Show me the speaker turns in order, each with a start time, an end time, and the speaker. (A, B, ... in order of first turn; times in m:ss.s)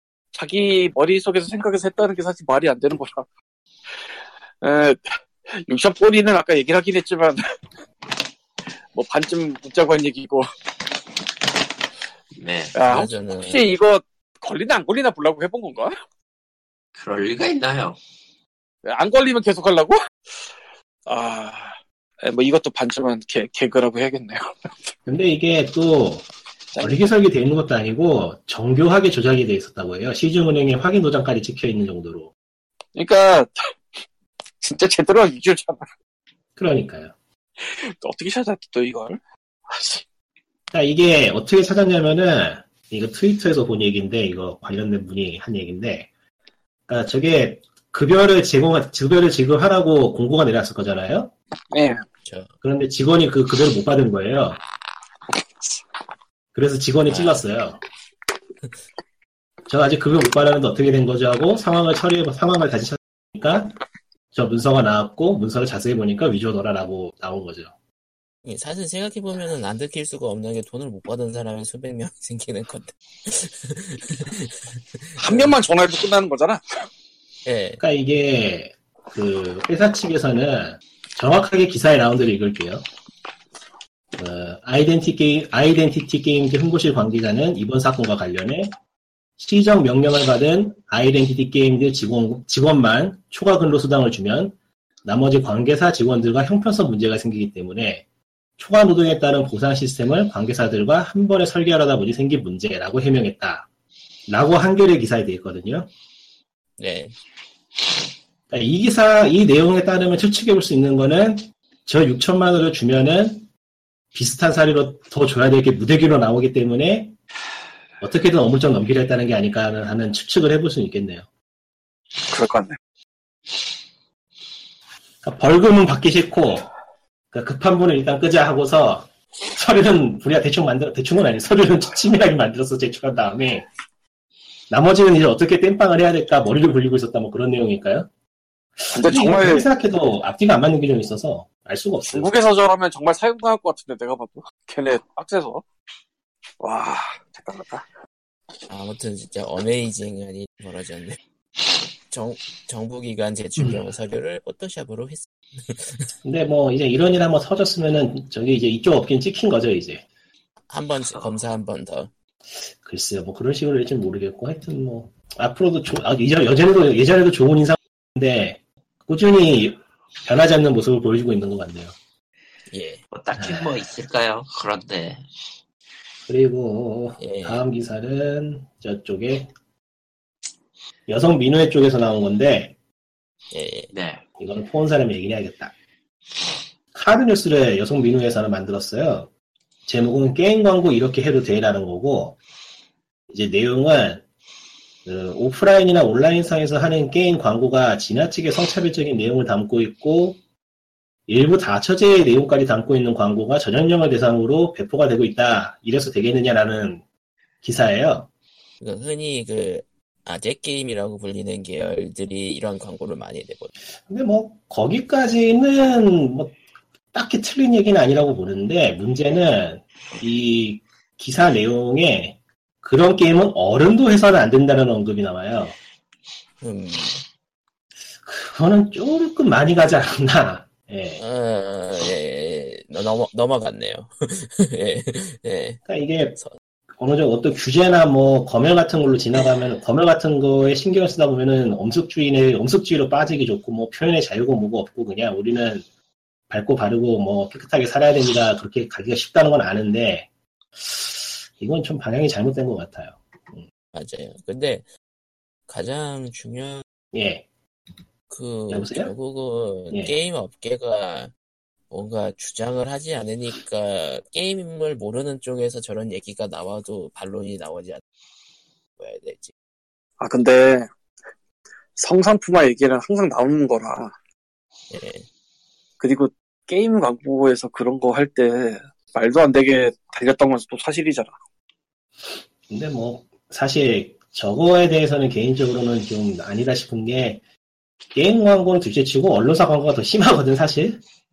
0:00.3-0:03.2 A
0:04.6-0:07.5 A
0:08.9-0:10.4 A
0:12.4-0:12.7 B
0:12.7-0:16.0 A
0:12.9-0:13.6 C
0:17.0-0:18.0 B
0:18.8-0:20.0 A
0:21.0-0:24.9 A
0:25.0-0:26.2 D
0:26.8-0:32.3 D
0:33.0-0:33.7 A
0:34.6-0:35.8 A
0:36.6-0:37.1 D
0:37.6-0:40.0 A
0:40.7-0:46.1 D
0:46.9-0:51.3 D
0:51.7-0:52.0 A
0:52.2-0:52.5 C
0:52.6-0:54.6 D
0:56.5-0:57.8 D
0:57.1-0:57.4 C
0:59.7-1:03.8 D
1:04.3-1:07.7 D
1:08.4-1:15.5 C
1:15.2-1:16.8 A
1:17.4-1:17.8 C
1:17.8-1:22.8 D
1:24.2-1:28.7 D
1:29.4-1:38.0 D
1:38.6-1:43.7 D
1:44.3-1:45.9 D
1:46.8-1:47.1 C
1:48.5-1:53.5 D
1:54.1-1:57.1 D
1:58.0-2:01.2 D
2:02.2-2:02.8 A
2:05.2-2:06.7 D
2:07.3-2:13.7 D
2:14.7-2:18.1 D
2:18.8-2:22.3 D
2:18.9-2:19.6 A
2:22.1-2:25.6 A
2:26.6-2:27.8 A
2:28.7-2:31.2 C
2:32.1-2:36.1 C
2:33.6-2:33.8 D
2:36.2-2:40.0 D
2:40.7-2:42.1 C
2:42.8-2:51.9 D
2:52.7-2:53.0 C
2:53.1-2:55.2 B
2:53.4-2:53.8 D
2:56.3-2:59.5 D
2:57.2-2:57.6 C
3:01.1-3:02.7 D
3:03.5-3:03.9 C
3:03.9-3:04.2 B
3:04.4-3:05.7 D
3:06.9-3:09.3 D
3:09.9-3:12.4 D
3:13.3-3:14.2 D
3:15.0-3:20.4 D
3:21.3-3:27.0 D
3:27.6-3:28.3 D
3:28.8-3:33.7 C
3:34.1-3:36.5 D
3:37.1-3:45.8 D
3:46.6-3:47.2 C
3:48.2-3:51.2 D
3:51.2-3:55.8 C
3:55.8-3:56.4 D
3:56.9-4:05.8 D
4:06.5-4:10.3 D
4:10.8-4:13.6 D
4:13.9-4:14.8 C
4:15.7-4:16.8 C
4:17.1-4:17.4 D
4:18.3-4:21.3 C
4:18.7-4:19.1 D
4:21.9-4:28.0 C
4:29.0-4:29.5 C
4:30.2-4:30.9 A
4:32.0-4:34.1 A
4:34.9-4:35.2 C
4:36.0-4:41.3 A
4:42.7-4:47.4 D
4:48.1-4:51.0 D